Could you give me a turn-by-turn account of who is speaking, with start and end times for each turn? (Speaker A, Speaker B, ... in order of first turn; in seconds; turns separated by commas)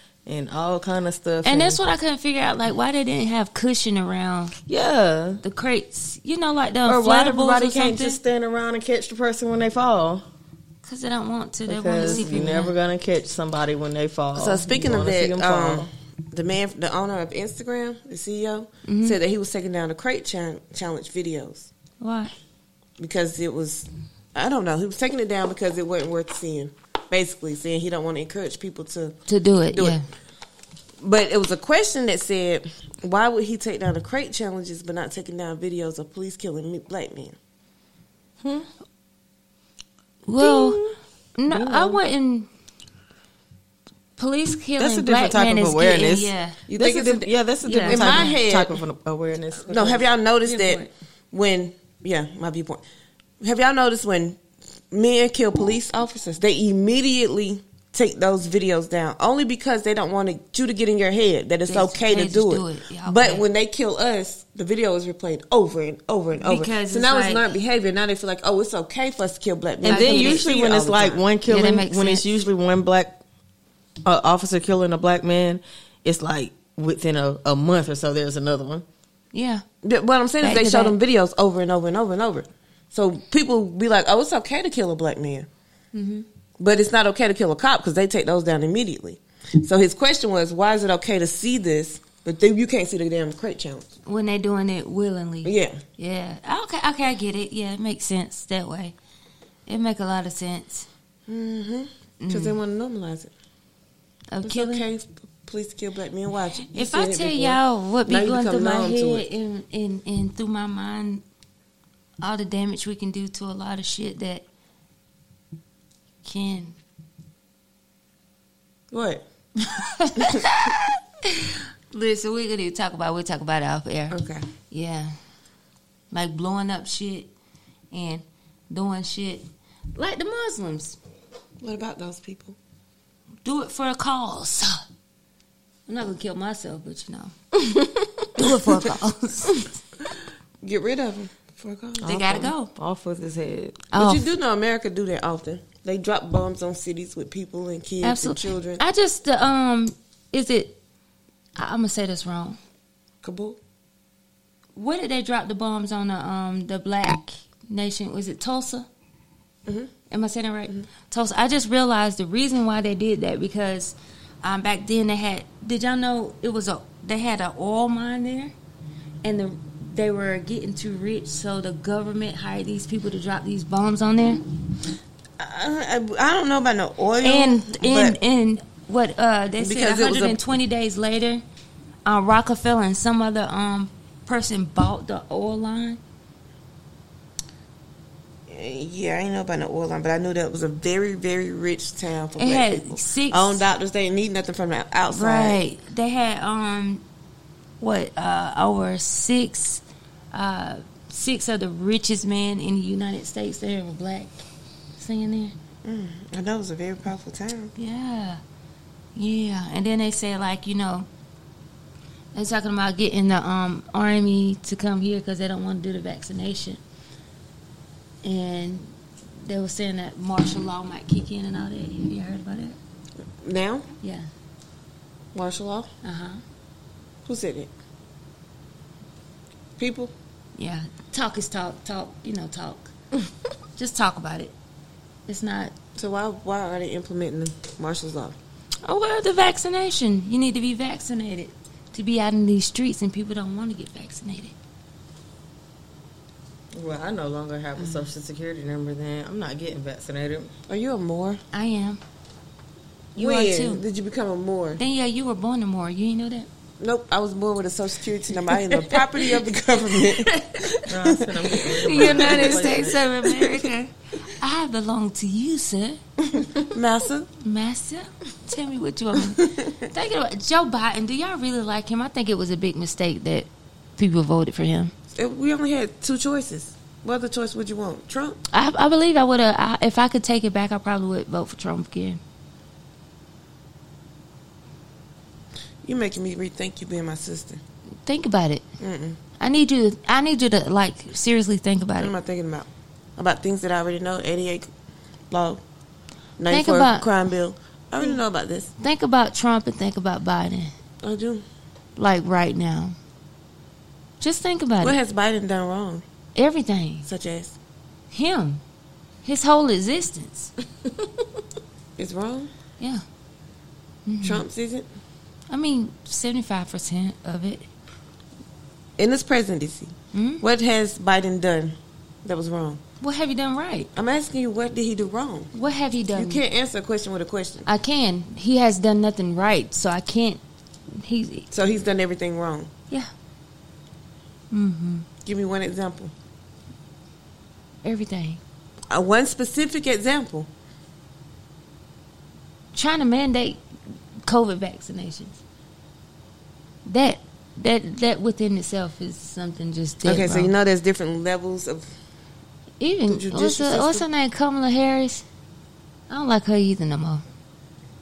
Speaker A: 0.2-1.8, Speaker B: 1.4-4.5, Speaker A: 4.7-5.4, Speaker B: 5.4-8.2, Speaker A: 6.9-10.2, Speaker B: 10.8-12.7, Speaker A: 11.7-15.9, Speaker C: 12.0-12.3, Speaker C: 14.3-21.7, Speaker B: 18.8-19.2, Speaker B: 22.0-22.3, Speaker C: 23.0-29.2, Speaker B: 29.3-30.1, Speaker C: 29.7-30.0, Speaker C: 31.0-37.3, Speaker A: 38.4-38.7, Speaker B: 40.2-40.8, Speaker A: 40.4-40.9, Speaker B: 41.4-42.5, Speaker A: 41.5-42.0, Speaker B: 44.2-46.6, Speaker A: 44.8-50.0, Speaker C: 46.7-47.3, Speaker B: 47.6-48.3, Speaker C: 47.8-48.8, Speaker C: 49.6-52.8, Speaker B: 50.4-50.9, Speaker C: 53.4-71.2, Speaker B: 61.7-63.4, Speaker B: 66.4-67.5, Speaker B: 69.8-70.4, Speaker A: 69.8-73.2, Speaker B: 71.4-72.3, Speaker A: 74.0-78.8, Speaker B: 79.3-79.6, Speaker C: 79.8-85.5, Speaker B: 80.4-81.0, Speaker B: 85.9-86.2, Speaker C: 86.6-93.9, Speaker B: 94.0-98.9, Speaker C: 95.4-95.8, Speaker B: 99.7-100.9, Speaker C: 101.3-103.3, Speaker B: 102.2-102.6, Speaker B: 104.3-104.8, Speaker C: 104.4-109.2, Speaker B: 106.6-111.2, Speaker B: 112.2-114.4, Speaker B: 116.2-116.8, Speaker C: 118.9-119.2, Speaker B: 119.6-124.2, Speaker C: 120.2-120.6, Speaker C: 124.1-124.4, Speaker B: 124.7-125.2, Speaker B: 126.1-127.3, Speaker B: 127.9-131.0, Speaker C: 131.6-132.6, Speaker B: 133.4-134.8, Speaker B: 135.9-137.3, Speaker A: 137.5-138.3, Speaker B: 138.3-139.7, Speaker C: 140.6-142.5, Speaker B: 142.0-142.7, Speaker A: 142.2-143.9, Speaker B: 143.9-144.3, Speaker C: 143.9-148.8, Speaker B: 148.0-150.8, Speaker B: 151.6-152.6, Speaker C: 153.2-153.6, Speaker B: 154.8-158.9, Speaker C: 159.7-159.9, Speaker B: 160.1-168.5, Speaker B: 169.2-174.4, Speaker C: 175.4-178.2, Speaker B: 177.2-181.4, Speaker C: 179.6-180.4, Speaker B: 182.1-186.0, Speaker C: 188.5-195.6, Speaker B: 192.4-193.6, Speaker B: 195.1-197.0, Speaker B: 197.8-204.4, Speaker B: 205.0-205.6, Speaker C: 205.8-207.7, Speaker B: 207.8-208.4, Speaker B: 209.2-211.1, Speaker B: 212.3-216.8, Speaker B: 218.2-222.8, Speaker C: 223.4-223.9, Speaker B: 224.0-224.3, Speaker C: 225.3-225.9, Speaker B: 226.0-226.4, Speaker C: 227.2-227.7, Speaker C: 229.8-230.1, Speaker B: 230.6-232.9, Speaker B: 233.8-234.5, Speaker B: 235.3-235.7, Speaker C: 236.0-238.3, Speaker B: 238.8-244.5, Speaker A: 246.7-250.5, Speaker C: 247.8-248.1, Speaker C: 250.7-251.4, Speaker B: 251.5-252.0, Speaker C: 253.2-254.8, Speaker B: 253.2-253.8, Speaker B: 254.8-256.5, Speaker C: 256.8-263.0, Speaker B: 258.8-259.3, Speaker B: 259.9-260.8, Speaker A: 260.9-263.0, Speaker B: 261.6-266.0, Speaker C: 266.6-267.3, Speaker B: 267.4-274.9, Speaker C: 269.4-269.8, Speaker C: 275.1-278.4, Speaker B: 278.5-282.2, Speaker C: 285.8-287.6, Speaker B: 288.1-288.6, Speaker C: 288.8-289.2, Speaker B: 289.4-292.1, Speaker C: 292.0-294.7, Speaker C: 295.3-295.6, Speaker C: 296.4-298.7, Speaker B: 296.5-297.1, Speaker B: 298.8-300.7, Speaker C: 301.0-301.4, Speaker B: 301.9-302.9, Speaker B: 304.2-304.9, Speaker C: 304.8-306.0, Speaker B: 306.4-307.1, Speaker C: 307.1-307.6, Speaker B: 308.1-308.6, Speaker B: 309.2-310.5, Speaker C: 312.0-312.5, Speaker B: 314.1-314.4, Speaker C: 314.2-314.9, Speaker B: 315.5-317.6, Speaker C: 319.0-322.8, Speaker B: 320.1-320.4, Speaker B: 323.0-323.9, Speaker C: 323.9-325.5, Speaker B: 325.5-326.4, Speaker C: 326.1-327.7, Speaker B: 327.6-331.5, Speaker C: 331.5-332.7, Speaker B: 334.5-335.1, Speaker C: 335.2-336.1, Speaker B: 337.8-338.4, Speaker C: 338.9-340.5, Speaker B: 342.7-343.6, Speaker B: 344.2-345.4, Speaker B: 346.8-350.5, Speaker C: 350.0-351.9, Speaker B: 352.8-355.2, Speaker C: 353.1-354.1, Speaker B: 356.1-357.2